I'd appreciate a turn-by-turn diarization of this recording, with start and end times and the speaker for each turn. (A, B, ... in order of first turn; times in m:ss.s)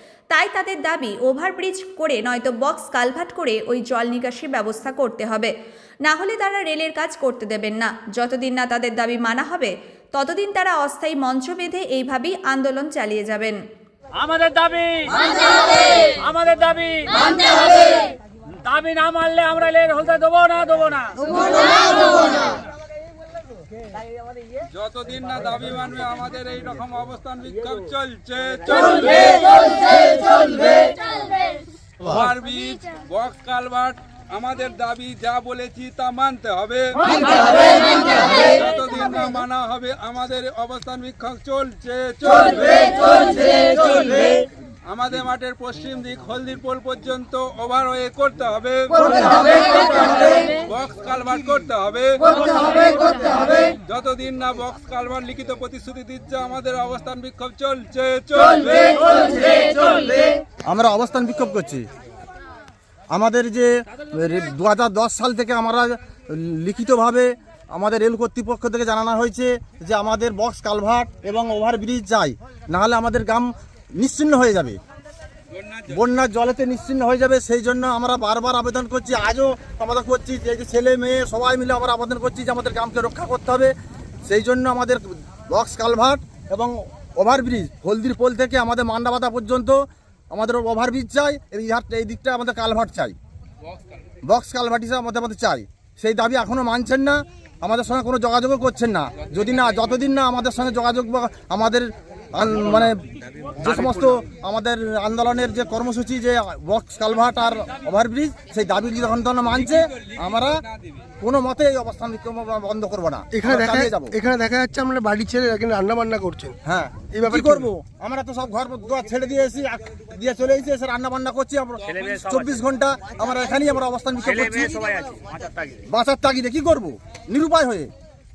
0:00.3-0:05.5 A
0:06.0-0:13.6 A
0:14.2-0:18.1 B
0:18.6-0:22.2 B
0:24.7-0:30.9 C
0:32.0-0:44.3 C
0:44.9-1:00.3 C
1:00.7-1:01.8 D
1:03.1-1:14.8 D
1:15.6-1:15.9 C
1:15.9-1:23.7 D
1:24.3-1:29.8 D
1:30.3-1:33.2 D
1:34.2-1:43.0 D
1:43.6-1:50.6 D
1:51.2-1:54.1 D
1:53.3-1:56.6 E
1:56.6-2:05.0 D
1:57.1-1:57.7 E
2:01.9-2:02.6 B
2:04.2-2:05.8 B
2:05.9-2:07.9 D